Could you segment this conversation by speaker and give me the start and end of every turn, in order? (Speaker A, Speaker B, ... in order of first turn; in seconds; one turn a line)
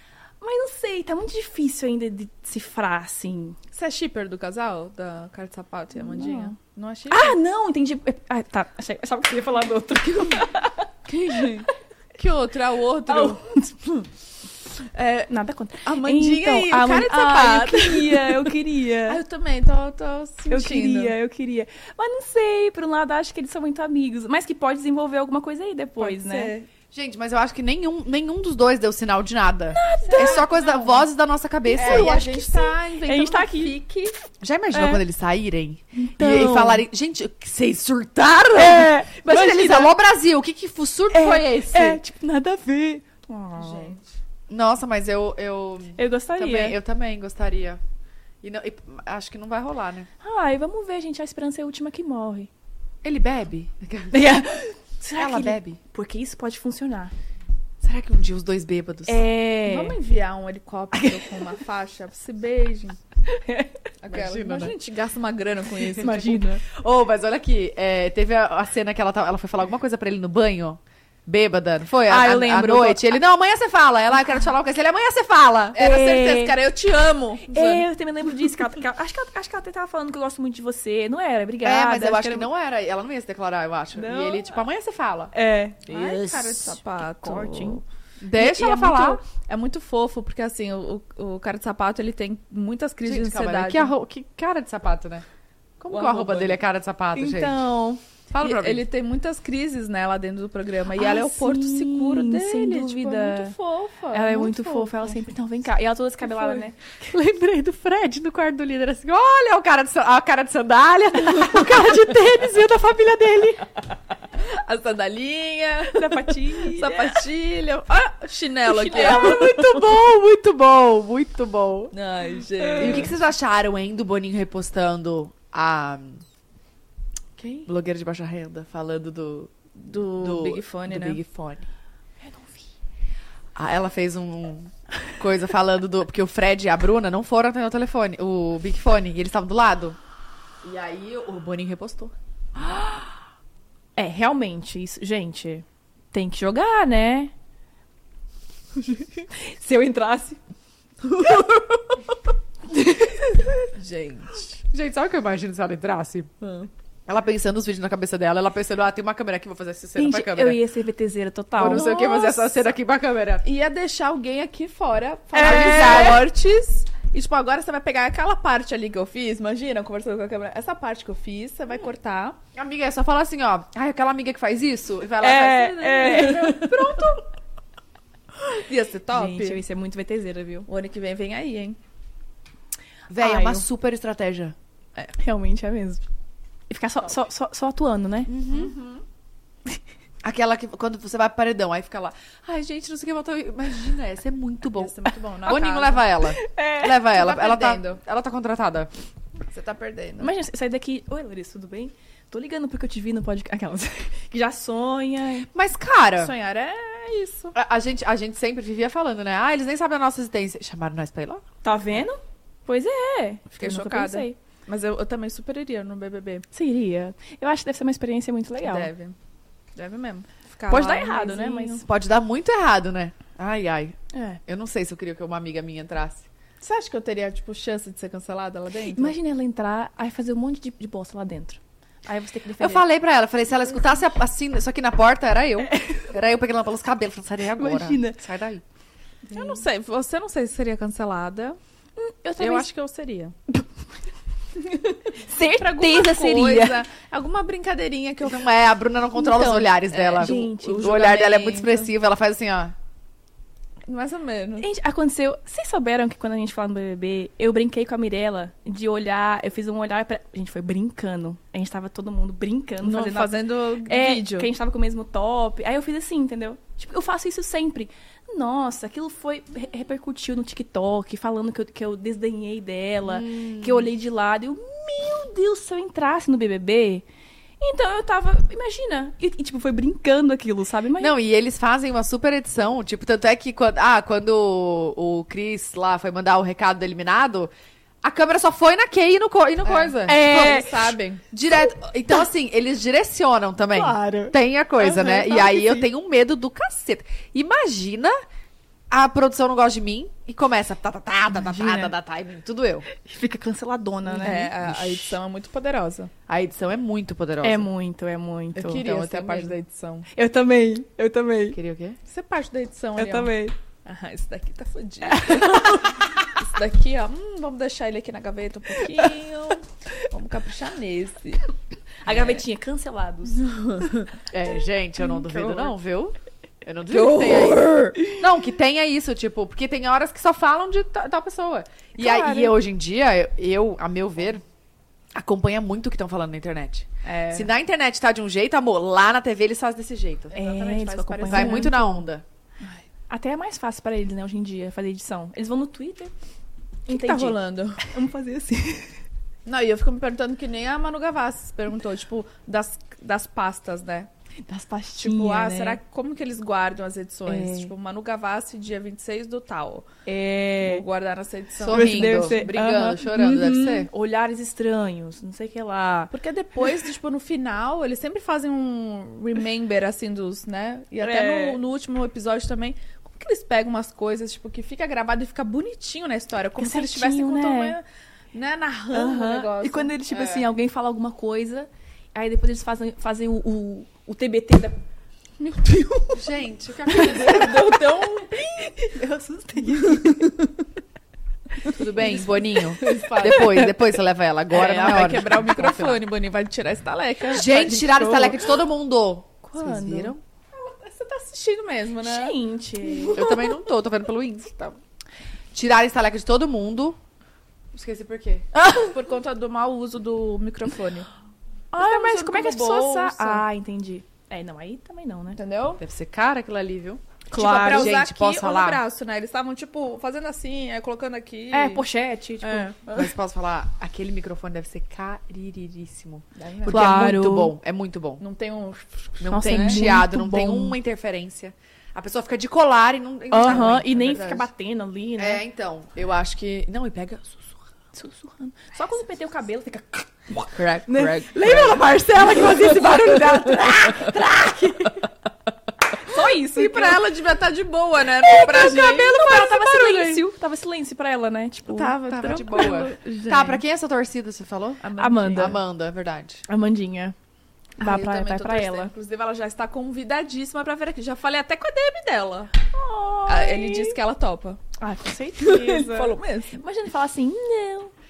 Speaker A: 0.4-3.6
Speaker B: 3.7-7.4
Speaker A: 6.0-6.5
Speaker A: 7.1-11.6
Speaker B: 11.1-13.4
Speaker A: 13.1-14.1
Speaker B: 14.9-15.3
Speaker A: 15.3-19.2
Speaker B: 15.8-21.1
Speaker A: 20.5-26.6
Speaker B: 26.0-26.7
Speaker C: 26.9-32.5
Speaker A: 29.7-30.8
Speaker B: 30.0-30.9
Speaker B: 31.7-34.2
Speaker A: 31.7-33.8
Speaker C: 34.4-42.0
Speaker A: 34.7-35.0
Speaker A: 36.0-36.9
Speaker A: 38.5-40.0
Speaker A: 41.1-44.0
Speaker B: 43.6-43.9
Speaker C: 44.5-47.8
Speaker A: 46.0-46.8
Speaker C: 48.4-50.1
Speaker A: 50.2-52.5
Speaker C: 53.0-54.2
Speaker A: 54.1-57.1
Speaker C: 55.2-55.8
Speaker C: 57.8-59.2
Speaker A: 59.1-60.0
Speaker B: 59.7-63.0
Speaker A: 60.9-61.6
Speaker A: 63.3-63.8
Speaker B: 64.0-66.6
Speaker C: 64.1-64.7
Speaker A: 65.8-66.6
Speaker C: 66.7-75.8
Speaker A: 72.1-73.2
Speaker B: 75.8-77.8
Speaker A: 75.8-76.6
Speaker A: 77.4-82.5
Speaker C: 81.6-85.3
Speaker A: 84.0-84.6
Speaker A: 85.3-87.8
Speaker B: 85.8-87.8
Speaker C: 88.2-89.2
Speaker B: 88.3-93.9
Speaker C: 93.0-95.2
Speaker C: 95.8-97.6
Speaker B: 95.9-96.6
Speaker A: 97.2-98.0
Speaker C: 98.3-98.8
Speaker B: 98.4-105.2
Speaker A: 101.0-103.5
Speaker A: 104.1-106.8
Speaker C: 106.3-113.7
Speaker B: 114.4-119.6
Speaker A: 115.9-117.2
Speaker C: 118.7-121.9
Speaker A: 119.0-119.6
Speaker B: 121.9-123.1
Speaker A: 122.6-123.1
Speaker C: 122.8-126.2
Speaker B: 127.4-127.7
Speaker C: 127.7-129.5
Speaker B: 129.8-131.2
Speaker C: 130.1-131.7
Speaker A: 132.2-132.5
Speaker C: 133.6-140.0
Speaker C: 140.6-142.1
Speaker A: 144.0-147.3
Speaker A: 148.8-150.4
Speaker A: 151.1-152.0
Speaker A: 152.7-153.7
Speaker B: 153.8-154.6
Speaker C: 154.6-156.3
Speaker B: 156.4-156.7
Speaker C: 157.1-160.6
Speaker A: 160.0-162.7
Speaker C: 161.6-163.4
Speaker B: 161.7-162.2
Speaker B: 163.4-172.4
Speaker A: 165.3-166.3
Speaker C: 165.4-166.3
Speaker C: 172.6-177.1
Speaker A: 175.2-176.8
Speaker B: 176.0-177.2
Speaker B: 178.5-179.6
Speaker A: 179.1-180.7
Speaker B: 180.7-181.8
Speaker C: 183.1-184.6
Speaker A: 183.2-183.6
Speaker A: 185.0-186.0
Speaker A: 186.7-188.3
Speaker C: 188.3-188.7
Speaker B: 188.5-189.0
Speaker C: 190.2-198.9
Speaker B: 194.7-196.1
Speaker A: 196.4-197.1
Speaker B: 197.1-198.0
Speaker B: 199.5-200.3
Speaker A: 200.2-205.5
Speaker C: 205.5-206.3
Speaker B: 206.2-207.5
Speaker C: 207.5-211.4
Speaker A: 211.6-214.4
Speaker B: 213.5-216.4
Speaker A: 216.5-218.9
Speaker B: 218.6-219.2
Speaker B: 219.8-221.8
Speaker A: 220.7-221.9
Speaker C: 221.9-224.0
Speaker A: 224.1-224.4
Speaker C: 224.5-226.2
Speaker B: 226.6-229.2
Speaker A: 228.9-232.8
Speaker C: 232.6-238.6
Speaker A: 235.7-236.1
Speaker A: 237.6-238.2
Speaker B: 239.3-241.6
Speaker A: 239.3-239.6
Speaker A: 242.0-242.7
Speaker B: 242.4-243.3
Speaker A: 244.6-246.8
Speaker B: 245.6-248.5
Speaker C: 248.2-252.8
Speaker B: 249.2-251.8
Speaker A: 249.3-251.7
Speaker B: 253.9-254.7
Speaker A: 254.6-277.1
Speaker B: 262.8-264.5
Speaker C: 273.1-273.9
Speaker A: 277.6-281.1
Speaker C: 281.0-287.5
Speaker C: 288.0-290.6
Speaker B: 289.6-291.2
Speaker A: 290.0-291.0
Speaker C: 291.3-298.2
Speaker A: 293.8-294.3
Speaker B: 294.8-295.8
Speaker C: 298.9-302.9
Speaker A: 301.4-301.9
Speaker A: 303.0-305.1
Speaker B: 304.1-306.1
Speaker C: 306.3-307.7
Speaker A: 307.4-309.5
Speaker B: 308.6-310.1
Speaker C: 308.8-309.4
Speaker A: 310.1-311.6
Speaker C: 311.5-312.0
Speaker B: 312.1-321.5
Speaker A: 313.0-313.6
Speaker A: 315.1-315.9
Speaker A: 318.8-319.1
Speaker A: 322.0-323.9
Speaker B: 323.4-324.1
Speaker C: 324.3-334.4
Speaker A: 325.1-325.7
Speaker B: 326.9-328.0
Speaker A: 332.0-332.5
Speaker C: 335.1-340.3
Speaker B: 337.1-337.5
Speaker B: 340.3-341.9
Speaker A: 340.3-341.9
Speaker C: 341.3-342.2
Speaker A: 343.1-346.1
Speaker A: 346.9-349.0
Speaker B: 346.9-347.9
Speaker B: 349.5-354.1
Speaker A: 354.4-355.8
Speaker B: 355.0-359.9
Speaker A: 357.3-357.7
Speaker A: 360.1-360.9
Speaker B: 360.6-362.4
Speaker C: 361.6-363.9
Speaker A: 361.7-366.1
Speaker B: 366.1-377.8
Speaker A: 371.0-371.6
Speaker A: 376.6-377.8
Speaker B: 378.3-380.0
Speaker A: 378.9-384.8
Speaker C: 380.1-380.5
Speaker A: 385.4-386.3
Speaker C: 386.1-387.8
Speaker A: 386.9-390.4
Speaker B: 387.0-388.6
Speaker B: 389.8-390.3
Speaker C: 391.7-396.0
Speaker B: 392.0-393.5
Speaker A: 392.2-393.8
Speaker B: 394.5-398.5
Speaker C: 397.3-400.2
Speaker A: 399.4-400.1
Speaker B: 400.5-403.6
Speaker A: 402.0-403.2
Speaker C: 403.1-404.8
Speaker C: 405.5-407.0
Speaker C: 407.7-408.5
Speaker A: 408.6-408.9
Speaker B: 408.7-411.1
Speaker A: 411.7-415.4
Speaker B: 411.8-413.4
Speaker B: 415.4-415.8
Speaker C: 415.8-418.8
Speaker A: 417.3-418.0
Speaker B: 417.3-421.9
Speaker A: 421.5-423.1
Speaker C: 422.8-428.2
Speaker B: 426.4-427.1
Speaker A: 426.7-427.6
Speaker B: 428.2-429.9
Speaker C: 429.2-434.5
Speaker A: 429.3-430.8
Speaker A: 433.3-435.4
Speaker C: 435.2-437.6
Speaker A: 437.9-440.1
Speaker C: 440.3-445.1
Speaker A: 440.9-444.1
Speaker B: 441.4-441.8
Speaker A: 446.0-447.1
Speaker B: 446.1-450.2
Speaker A: 448.2-452.0
Speaker B: 451.7-453.6
Speaker C: 452.1-456.4
Speaker B: 454.8-455.6
Speaker A: 455.0-455.6
Speaker A: 456.5-457.1
Speaker A: 457.8-458.9
Speaker B: 457.8-462.5
Speaker A: 462.7-464.0
Speaker B: 463.3-464.7
Speaker A: 464.8-467.9
Speaker B: 465.4-466.6